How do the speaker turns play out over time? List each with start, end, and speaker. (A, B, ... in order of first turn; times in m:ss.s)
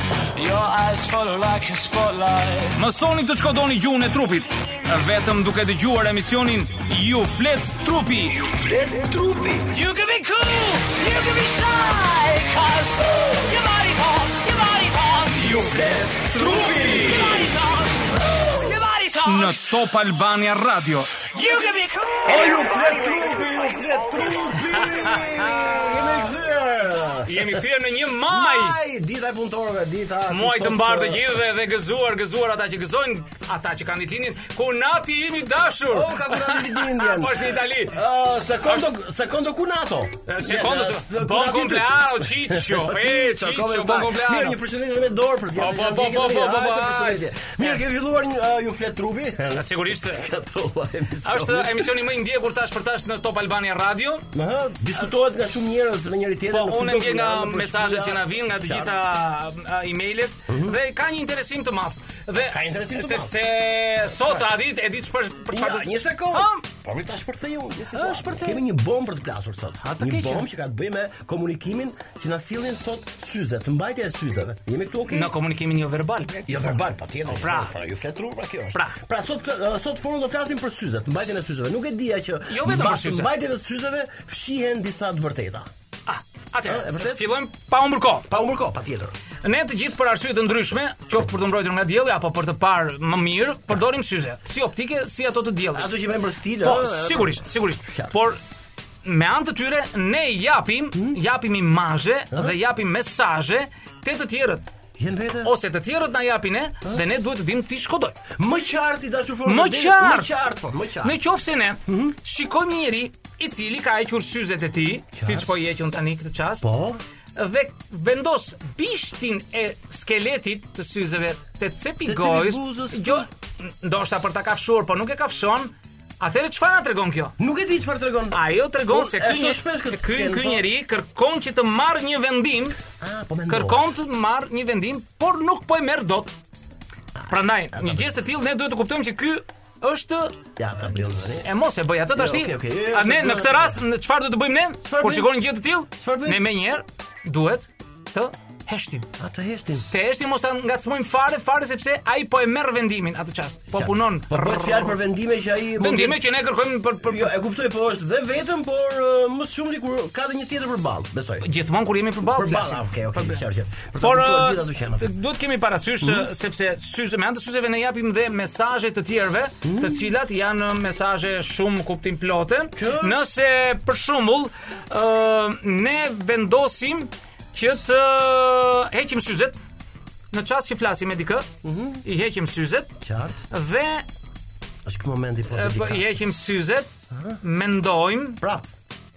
0:00.3-0:02.6 A
0:00.4-0:02.7 B
0:02.7-0:08.5 C
0:08.6-0:09.9 B
0:09.8-0:15.8 A
0:11.1-0:12.4 B
0:15.2-0:18.9 B
0:16.4-0:17.8 A
0:18.4-0:19.5 A
0:19.2-0:21.3 C
0:21.3-0:23.2 A
0:22.2-0:27.6 B
0:24.7-0:25.7 C
0:27.2-0:28.8 C
0:28.3-0:31.2 B
0:30.3-0:38.0 C
0:35.9-0:52.0 B
0:40.2-0:44.6 C
0:45.5-0:47.8 C
0:49.6-0:50.3 C
0:51.2-0:54.2 C
0:54.3-0:59.0 B
0:56.5-1:06.6 C
1:00.5-1:00.8 B
1:02.4-1:03.4 B
1:04.2-1:04.5 B
1:05.5-1:15.3 B
1:07.9-1:08.6 C
1:09.8-1:10.4 C
1:15.1-1:16.7 C
1:16.5-1:25.7 B
1:17.3-1:17.7 C
1:22.5-1:23.3 C
1:26.0-1:28.3 C
1:26.6-1:27.3 B
1:28.3-1:29.1 B
1:29.4-1:35.9 C
1:35.7-1:38.1 B
1:36.6-1:38.4 C
1:39.0-1:44.7 C
1:45.0-1:45.5 B
1:45.4-1:48.2 C
1:48.4-1:51.2 B
1:49.4-1:50.3 C
1:51.0-1:56.6 C
1:51.9-1:52.1 B
1:55.1-1:55.5 B
1:56.6-1:57.0 B
1:57.4-2:07.3 C
2:02.0-2:03.2 B
2:07.4-2:10.6 B
2:08.3-2:12.8 C
2:13.0-2:13.9 B
2:13.5-2:16.3 C
2:17.2-2:18.2 B
2:17.3-2:20.4 C
2:20.6-2:21.5 B
2:21.4-2:29.1 C
2:22.1-2:23.8 B
2:24.8-2:25.3 B
2:26.0-2:26.4 B
2:29.2-2:29.9 B
2:29.9-2:35.0 C
2:33.7-2:36.2 B
2:35.8-2:37.3 C
2:37.0-2:41.4 B
2:41.4-2:43.4 C
2:42.2-2:45.1 B
2:44.0-2:59.5 C
2:49.6-2:50.1 B
2:52.7-2:53.2 B
3:00.3-3:01.5 C
3:01.6-3:02.0 B
3:02.0-3:03.0 C
3:03.0-3:03.4 B
3:03.5-3:04.0 C
3:04.8-3:06.1 B
3:05.5-3:08.4 C
3:07.1-3:07.4 B
3:08.4-3:08.7 B